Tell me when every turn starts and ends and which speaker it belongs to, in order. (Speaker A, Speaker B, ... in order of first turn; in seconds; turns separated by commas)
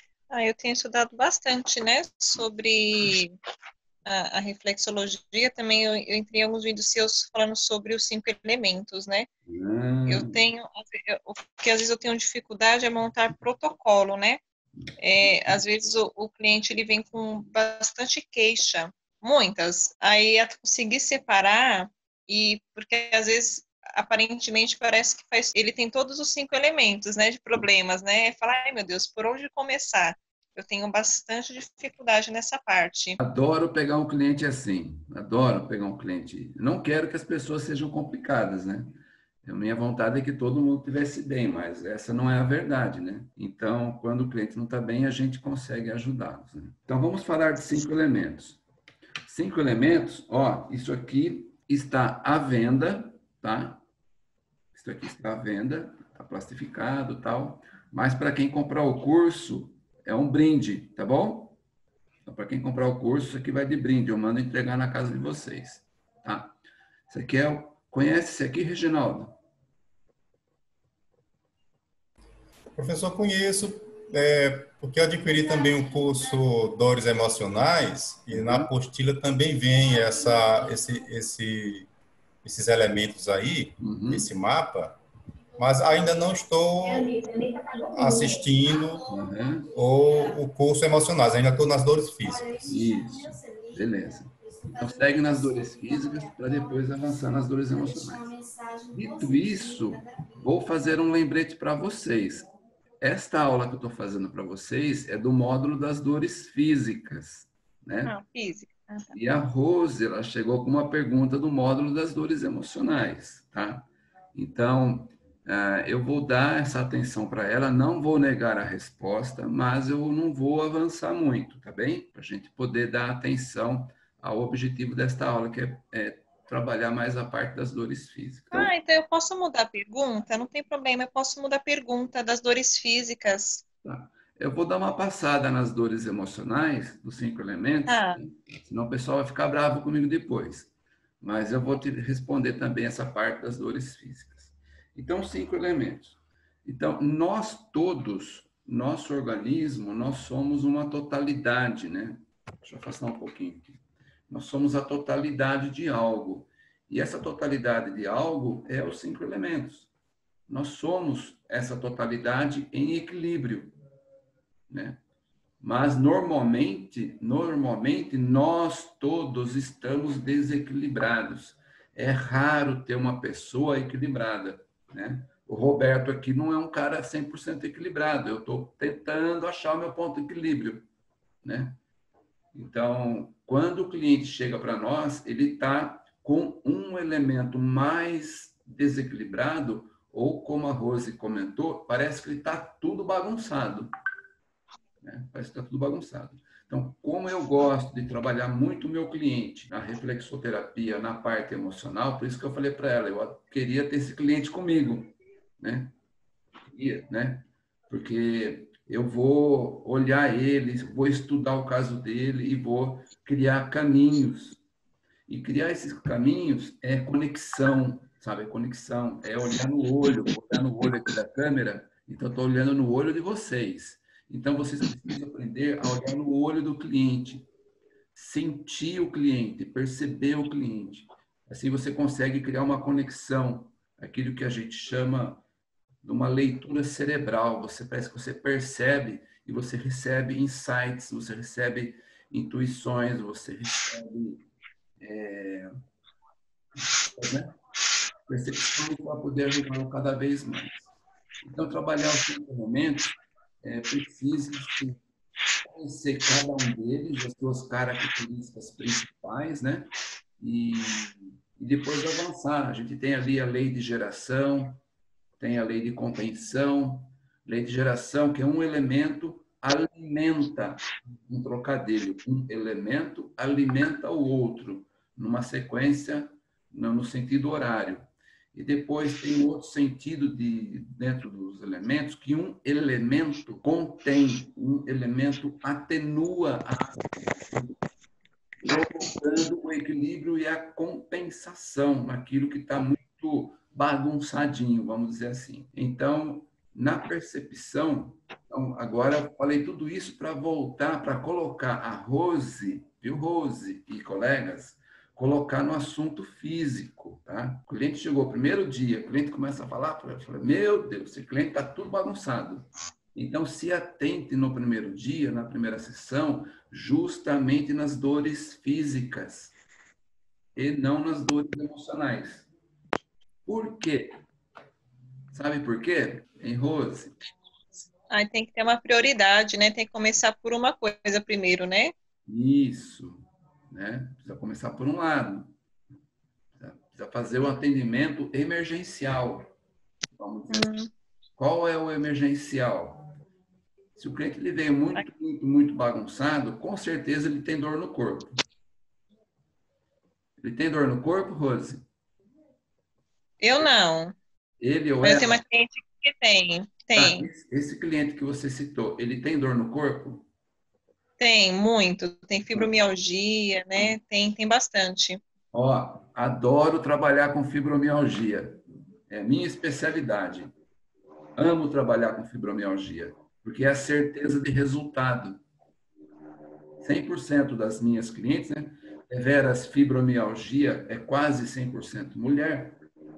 Speaker A: 0.3-3.3, Speaker A: 4.0-9.3, Speaker B: 9.5-10.4, Speaker A: 10.1-14.4, Speaker A: 15.0-33.2, Speaker B: 33.2-48.6, Speaker B: 49.3-53.8, Speaker B: 54.7-61.6, Speaker B: 62.2-66.6, Speaker B: 67.1-69.4, Speaker C: 72.8-81.9, Speaker B: 78.3-78.7, Speaker C: 82.4-85.0, Speaker B: 83.8-84.3, Speaker C: 85.6-87.2, Speaker C: 87.9-89.0, Speaker B: 89.1-89.7, Speaker C: 89.7-92.7, Speaker B: 92.7-98.3, Speaker B: 98.9-102.5, Speaker B: 103.0-108.1, Speaker A: 108.0-109.1, Speaker B: 109.1-128.7, Speaker A: 128.5-133.7, Speaker B: 133.8-159.9, Speaker A: 137.9-138.2, Speaker B: 160.5-163.7, Speaker B: 164.7-165.0, Speaker B: 165.6-180.8, Speaker B: 181.4-181.8, Speaker B: 182.5-193.9, Speaker B: 195.0-205.9, Speaker B: 206.7-214.6, Speaker B: 215.3-227.5, Speaker B: 228.1-235.4, Speaker B: 236.0-244.4, Speaker B: 245.0-245.7, Speaker B: 247.1-247.6, Speaker B: 248.3-250.9, Speaker B: 251.4-255.0, Speaker B: 255.6-264.8, Speaker B: 265.4-287.0, Speaker B: 288.6-319.5, Speaker B: 320.6-322.5, Speaker B: 323.4-324.2, Speaker B: 325.3-327.4, Speaker A: 328.1-331.9, Speaker B: 332.3-335.5, Speaker B: 336.6-339.5, Speaker B: 340.1-340.7, Speaker A: 340.5-340.9, Speaker B: 341.4-343.1, Speaker B: 344.0-348.4, Speaker B: 350.4-351.8, Speaker A: 353.4-354.1, Speaker B: 354.6-355.4, Speaker A: 355.0-357.3, Speaker B: 356.9-360.2, Speaker A: 361.2-365.2, Speaker B: 365.5-370.5, Speaker B: 371.4-375.4, Speaker B: 376.8-382.8